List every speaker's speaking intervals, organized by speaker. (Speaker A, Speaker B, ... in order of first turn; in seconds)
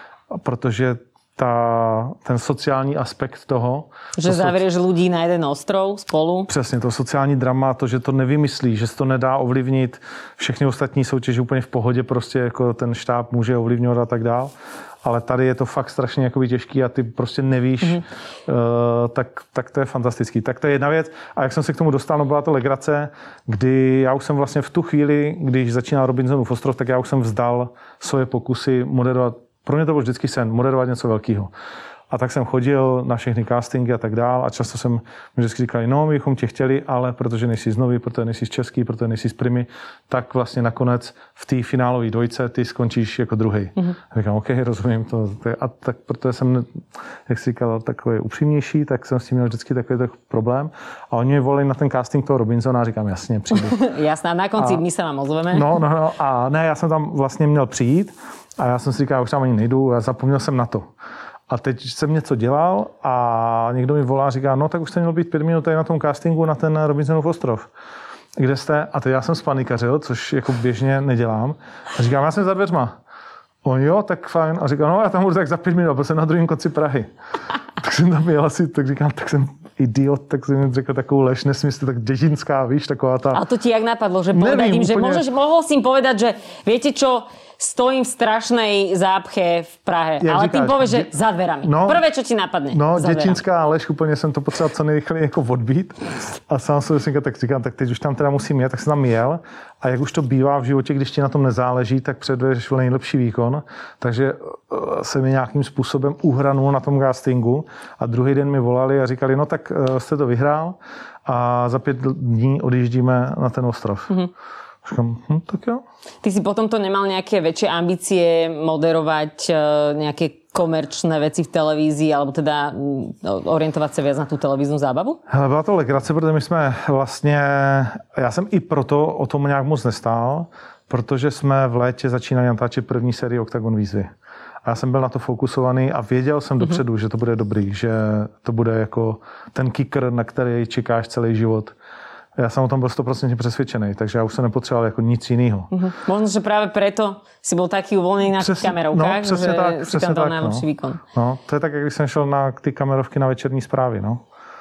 Speaker A: 0.3-4.6, 6.5-31.5, 32.1-53.8, 55.5-60.9, 61.5-67.7, 68.4-73.0, 73.6-77.1, 77.8-83.4, 84.3-85.2, 90.2-92.0, 92.7-114.1, 114.8-115.8, 125.3-134.1, 134.6-141.8, 142.4-145.7, 148.4-154.2
Speaker B: 4.2-6.5, 53.5-55.8, 83.3-93.4, 116.2-125.2, 145.7-151.0